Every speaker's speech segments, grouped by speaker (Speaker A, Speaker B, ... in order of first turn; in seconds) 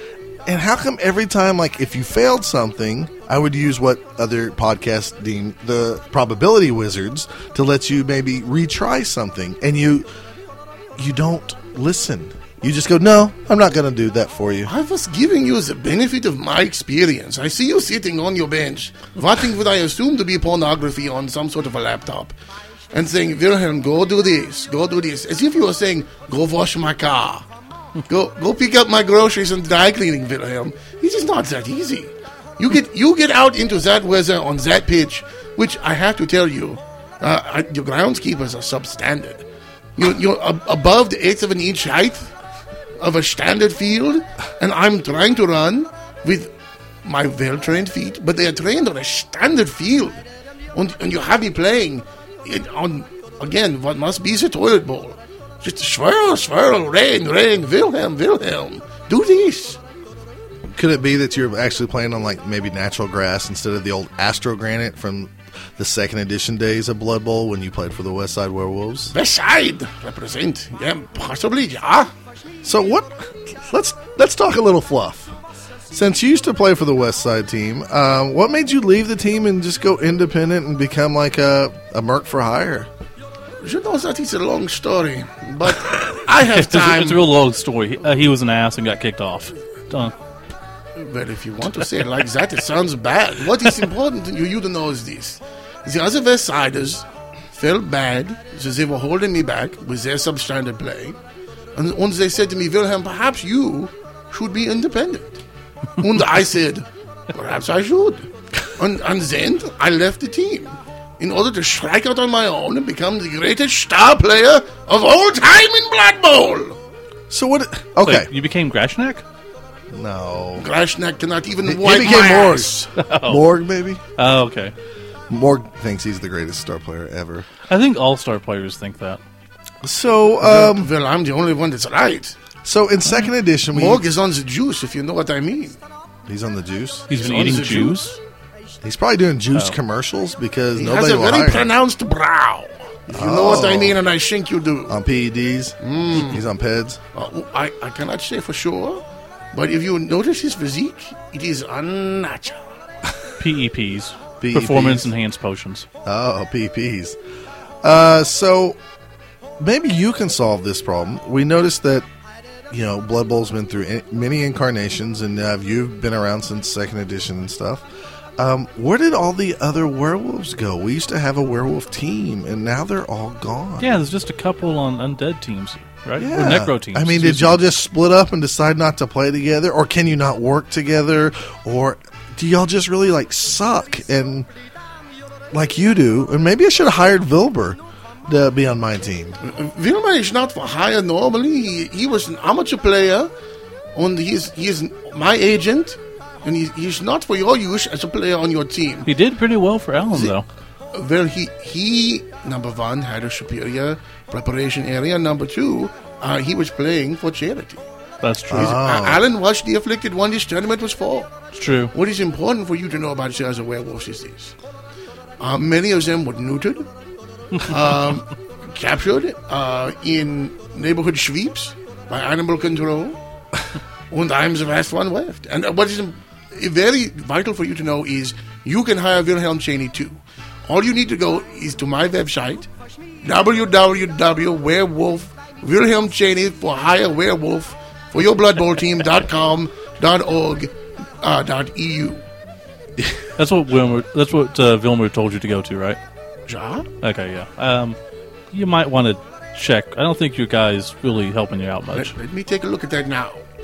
Speaker A: 0.5-10.1, 11.0-14.7, 60.7-69.2, 72.6-75.4, 75.9-82.9, 117.3-118.3, 119.9-120.7, 121.7-124.0, 125.3-127.5, 129.8-130.9, 132.6-134.0, 136.3-137.1, 138.8-141.7, 143.1-144.0, 144.9-147.0, 154.4-155.1, 156.1-157.2, 157.8-158.8, 159.6-162.1, 162.7-167.9, 168.4-173.9, 176.2-184.5, 185.5-189.4, 208.5-209.2
Speaker B: 14.7-22.3, 22.9-27.5, 28.1-39.5, 40.0-42.3, 43.0-46.5, 47.0-50.2, 50.7-59.8, 69.1-72.1, 83.6-87.3, 91.0-101.2, 101.8-105.4, 106.0-116.8, 120.6-122.9, 130.4-132.4, 133.7-135.8, 137.1-138.2, 140.8-144.9, 145.8-146.4, 147.1-152.7, 189.4-193.3, 193.9-199.1, 200.9-207.8, 208.5-211.3, 211.9-214.5, 215.4-216.9, 217.6-223.2, 224.1-232.7, 233.2-242.3, 246.5-246.9, 251.9-253.4
Speaker C: 86.5-90.1, 118.0-119.2, 123.0-123.5, 124.2-124.8, 127.7-129.2, 133.1-133.3, 137.1-138.2, 153.4-155.9, 173.8-177.6, 199.1-200.5, 208.2-208.8, 211.6-211.9, 243.4-246.0, 247.0-248.0, 248.5-252.2